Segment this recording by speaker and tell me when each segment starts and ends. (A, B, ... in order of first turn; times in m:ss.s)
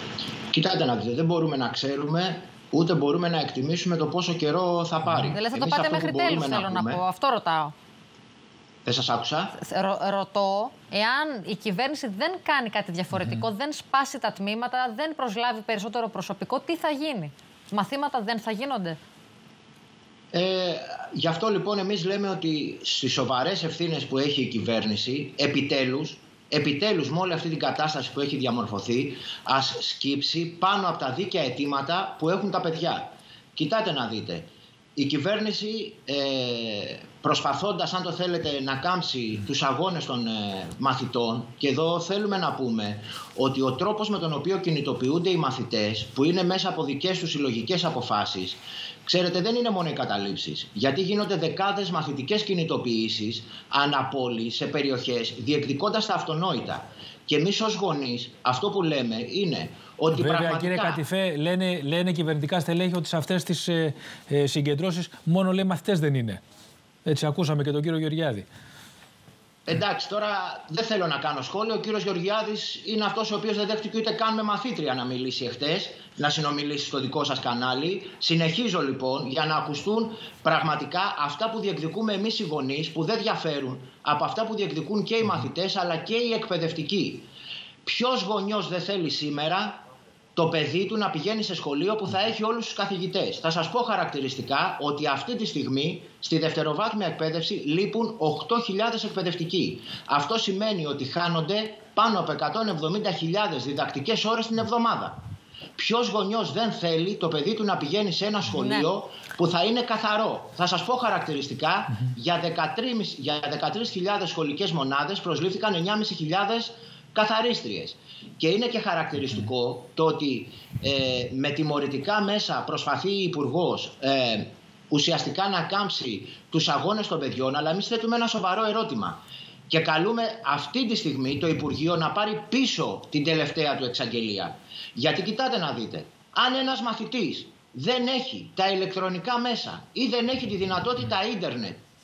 0:00.5-0:07.0 A
0:05.3-0:07.7 B
0:08.8-0:09.6 A
0:09.6-0:19.0 B
0:20.3-1:01.0 A
1:00.1-1:06.4 C
1:07.0-1:08.5 C
1:09.7-1:27.2 A
1:27.8-1:29.8 A
1:30.3-1:45.2 A
1:45.8-2:21.8 A
1:48.5-1:48.9 B